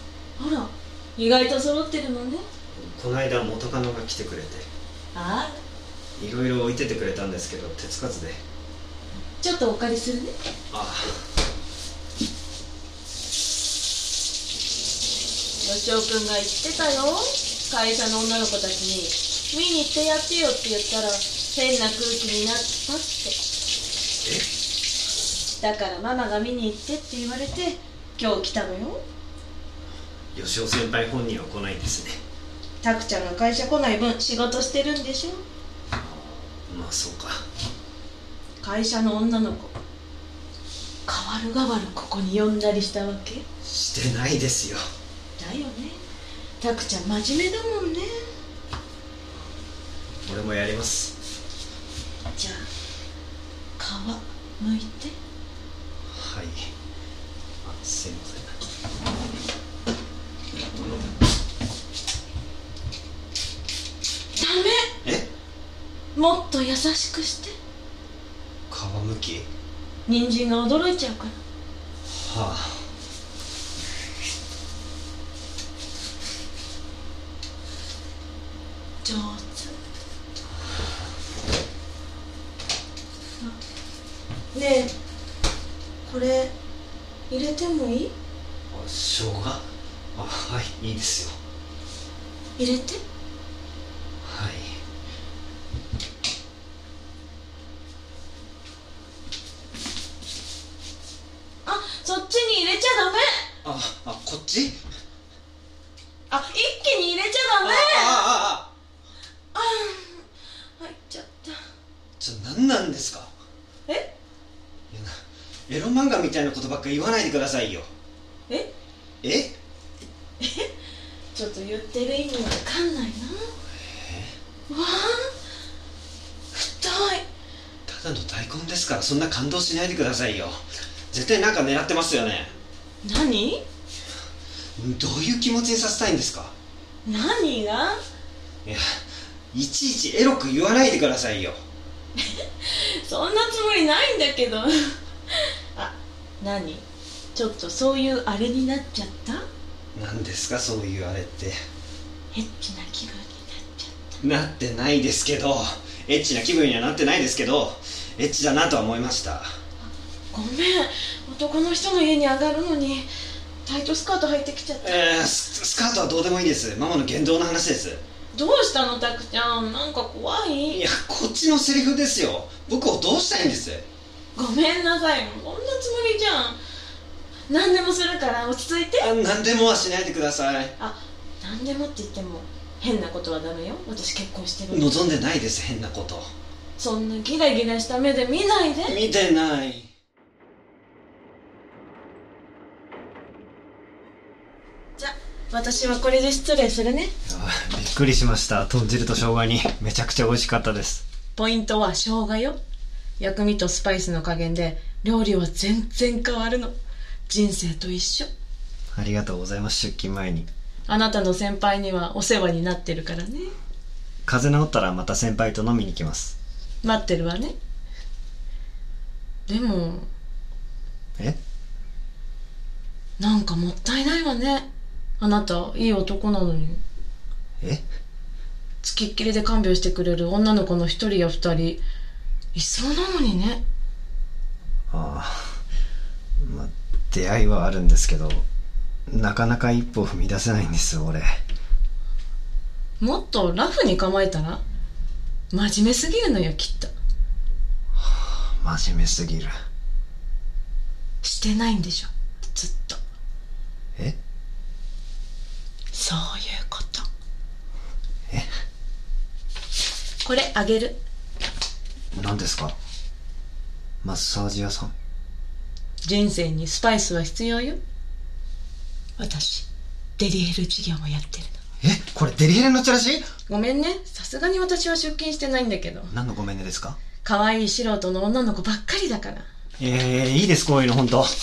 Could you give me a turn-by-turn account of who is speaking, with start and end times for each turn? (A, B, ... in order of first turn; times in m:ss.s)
0:00.4-0:02.4 A
0:02.7-0:04.7 B
0:05.1-0:05.6 A
0:06.2-0:08.4 B
0:09.4-0:10.3 A
0:10.7-0:11.2 B
0:15.6-0:23.4 A
0:24.2-0:24.5 B
0:25.5-0:29.0 A
0:30.3-0:32.2 B
0:32.8-0:35.4 A
0:35.9-0:37.4 B
0:38.6-0:39.7 A
0:41.0-0:43.4 A
0:43.6-0:44.8 B
0:45.4-0:46.0 A
0:46.6-0:48.3 A
0:50.2-0:51.2 B
0:52.3-0:52.7 A
0:53.8-0:55.2 A
0:56.1-0:56.7 B
0:57.6-0:58.6 B
1:04.4-1:04.9 A
1:05.0-1:05.3 B
1:06.1-1:07.5 A
1:08.7-1:09.5 B
1:10.0-1:11.4 A
1:12.1-1:12.8 B
1:19.0-1:19.7 A
1:24.5-1:24.9 A
1:26.0-1:26.5 A
1:27.3-1:28.1 A
1:28.7-1:31.4 B
1:32.6-1:33.0 A
1:34.2-1:34.8 B
1:41.6-1:43.4 A
1:43.6-1:44.8 B
1:46.3-1:48.3 A
1:47.6-1:48.7 B
1:49.5-1:50.2 A
1:50.8-1:51.6 A
1:52.2-1:53.3 B
1:54.9-1:57.9 B
1:59.2-1:59.6 B
2:00.4-2:00.7 A
2:01.3-2:03.5 A
2:03.8-2:04.4 B
2:04.7-2:05.3 A
2:06.6-2:07.2 A
2:07.8-2:12.5 B
2:13.0-2:13.6 A
2:14.8-2:16.5 B
2:17.0-2:18.0 A
2:18.6-2:21.6 B
2:22.2-2:25.0 A
2:25.7-2:29.4 A
2:29.9-2:31.6 B
2:32.3-2:34.2 A
2:34.2-2:39.5 B
2:40.3-2:43.1 A
2:43.6-2:45.1 A
2:44.8-2:48.0 B
2:48.3-2:50.8 A
2:50.7-2:53.8 B
2:54.3-2:56.6 A
2:57.5-2:59.1 A
2:59.0-3:00.7 B
3:00.8-3:05.0 A
3:04.7-3:06.3 B
3:06.8-3:09.0 A
3:08.9-3:09.9 B
3:15.0-3:17.1 A
3:17.2-3:21.0 B
3:21.4-3:22.6 A
3:23.2-3:26.8 A
3:27.3-3:28.3 A
3:28.9-3:30.5 B
3:30.9-3:33.5 A
3:34.2-3:36.3 B
3:36.8-3:37.5 A
3:39.5-3:40.1 A
3:43.2-3:44.7 A
3:45.2-3:46.8 A
3:48.8-3:51.8 A
3:52.5-3:53.6 A
3:54.9-3:55.6 B
3:56.4-3:58.4 B
3:59.1-4:01.4 B
4:03.0-4:04.6 A
4:05.5-4:06.9 A
4:07.9-4:09.5 B
4:11.2-4:13.0 A
4:15.9-4:17.1 A
4:20.2-4:21.0 A
4:22.1-4:22.8 B
4:24.0-4:24.9 B
4:26.0-4:27.8 A
4:29.2-4:29.7 A
4:30.2-4:31.6 A
4:31.8-4:33.3 B
4:33.5-4:36.1 A
4:36.1-4:37.0 B
4:37.2-4:39.4 A
4:39.8-4:41.3 B